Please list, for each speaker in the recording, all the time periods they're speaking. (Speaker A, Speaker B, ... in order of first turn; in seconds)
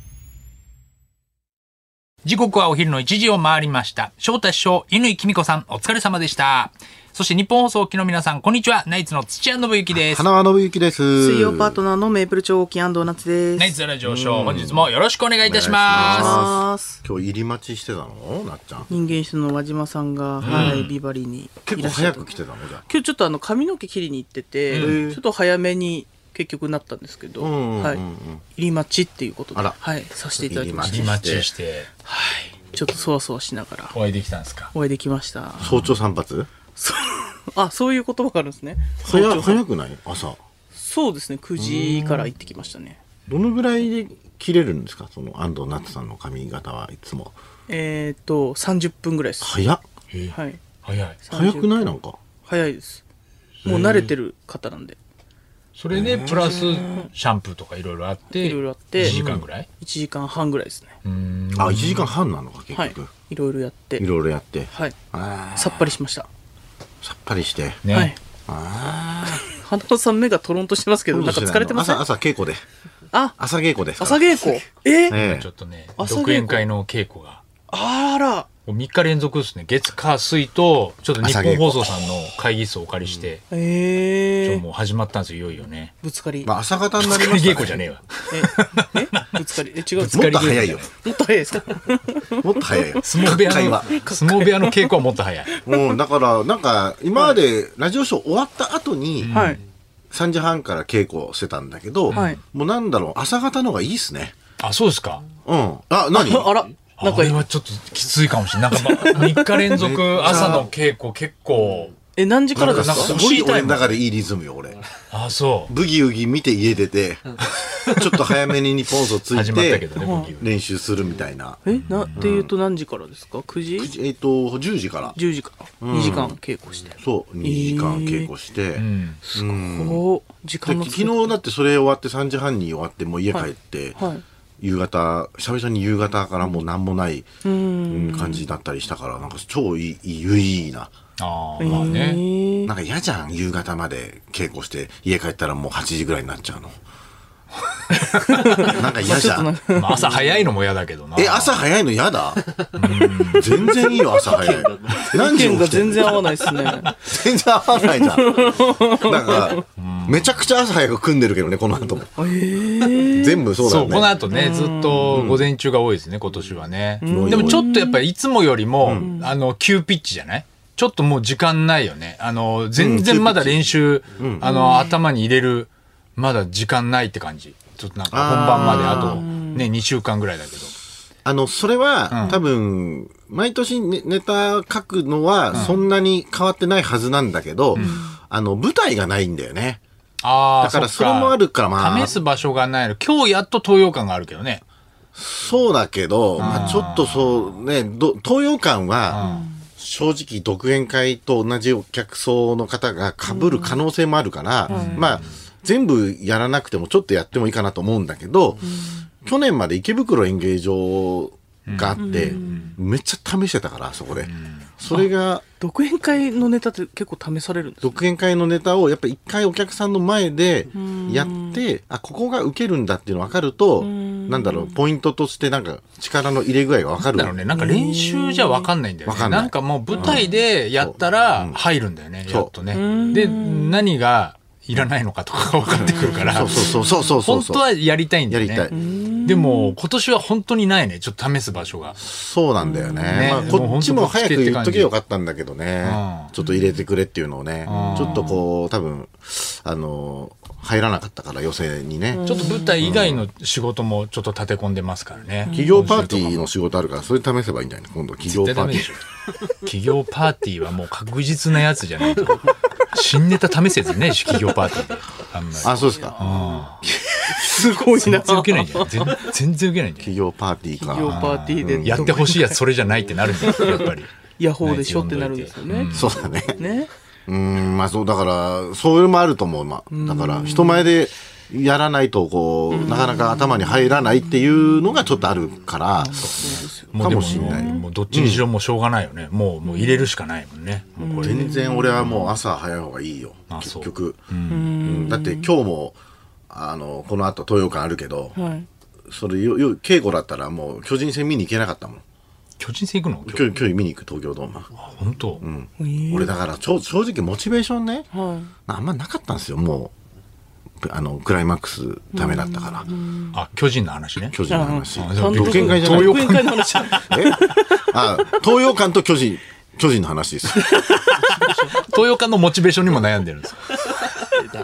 Speaker A: 2.2-10.3, 13.6-16.4, 20.4-20.9, 24.7-25.0, 30.8-31.9, 33.9-34.7, 35.6-35.9, 50.1-51.2, 53.6-54.1, 55.8-59.7, 61.0-62.1, 67.8-68.1, 75.1-77.4, 78.7-83.4, 84.4-85.9, 87.0-89.3, 89.9-90.9, 93.0-95.5, 99.2-99.6, 102.1-102.4, 104.6-105.2, 107.0-112.0, 112.5-114.0, 115.1-115.7, 119.3-120.5, 121.7-122.2, 128.8-129.2, 141.2-142.2, 149.7-151.6, 152.7-153.7, 159.8-160.5, 163.6-180.7, 182.1-182.4, 185.5-185.8, 187.7-188.0, 190.2-194.6, 196.4-197.6, 199.1-199.5, 204.7-205.3, 211.7-212.7, 214.3-214.6, 227.1-236.7, 237.2-238.7, 239.2-242.0, 243.1-244.9, 245.8-246.3, 247.7-248.4, 252.2-256.5, 258.3-266.8, 267.9-270.1, 271.1-276.2, 286.2-291.4, 292.0-292.3, 293.5-294.7, 302.6-303.7, 304.8-305.4, 313.3-316.9, 320.9-324.0
Speaker B: 9.9-11.8, 14.0-14.9, 15.4-18.9, 20.4-20.8, 21.7-22.8, 24.7-25.2, 27.4-28.4, 30.4-31.5, 35.6-36.5, 39.0-40.4, 41.5-42.3, 43.3-47.3, 49.4-49.8, 51.3-52.2, 55.9-56.6, 59.0-59.4, 61.5-63.1, 64.0-66.0, 67.0-67.8, 68.5-69.4, 71.1-72.6, 73.4-74.5, 75.1-75.5, 81.2-81.9, 83.0-83.3, 86.4-87.9, 90.1-90.9, 92.4-93.9, 95.6-99.4, 100.1-104.3, 105.4-106.5, 109.7-110.7, 112.5-114.8, 115.7-122.5, 123.8-125.2, 125.8-126.3, 127.0-130.0, 130.7-134.0, 134.6-137.3, 137.9-140.9, 141.7-142.0, 142.6-146.8, 148.6-149.5, 151.2-152.5, 153.2-162.1, 162.9-164.1, 165.1-165.5, 167.1-167.6, 168.8-169.1, 172.8-174.5, 178.1-179.3, 181.2-189.8, 190.6-192.2, 195.1-208.6, 209.2-215.4, 217.8-227.4, 229.1-231.6, 235.7-237.7, 238.3-238.7, 242.0-253.2, 255.5-258.9, 265.6-266.5, 270.0-272.2, 275.9-276.6, 277.3-288.4, 291.2-296.0, 296.5-298.4, 299.1-302.0, 303.2-304.7, 305.4-308.1, 308.6-309.9, 310.8-312.9, 314.3-316.2, 316.9-320.8
Speaker C: 11.2-13.8, 15.9-17.0, 18.9-22.3, 22.9-31.2, 32.0-33.9, 34.7-35.7, 36.8-39.6, 40.7-43.0, 47.7-49.5, 50.3-50.6, 51.2-53.0, 53.6-55.0, 56.5-57.1, 58.3-59.2, 59.8-60.9, 62.7-64.0, 65.5-66.3, 67.9-68.2, 69.5-72.0, 73.1-73.3, 74.0-75.2, 76.0-76.6, 77.7-78.5, 83.5-84.6, 86.0-86.5, 88.3-95.0, 99.3-99.6, 102.1-102.4, 106.1-107.4, 108.7-109.7, 110.3-110.6, 112.1-113.2, 120.0-120.3, 121.6-123.9, 125.1-128.3, 129.2-131.3, 133.3-134.2, 137.4-138.4, 141.6-142.7, 148.0-150.3, 155.0-156.9, 157.9-159.6, 162.2-163.4, 164.3-165.1, 167.0-168.0, 168.9-169.3, 174.4-175.0, 178.5-179.7, 187.7-188.2, 199.2-199.5, 203.3-203.8, 204.7-205.1, 208.6-209.1, 212.0-212.8, 215.6-218.0, 220.7-221.6, 223.8-224.8, 227.5-228.7, 230.0-230.3, 232.7-233.9, 235.7-237.1, 238.7-239.8, 242.6-243.7, 246.4-246.8, 247.7-248.4, 252.1-252.9, 255.4-255.9, 265.8-266.1, 266.9-269.2, 270.8-272.6, 273.4-276.0, 276.5-276.9, 279.9-280.9, 282.7-284.1, 286.0-287.8, 289.6-290.1, 291.0-292.3, 294.5-295.5, 298.3-298.7, 305.8-306.3, 308.1-308.5, 312.1-313.4, 314.5-318.0, 320.7-321.9, 324.1-324.5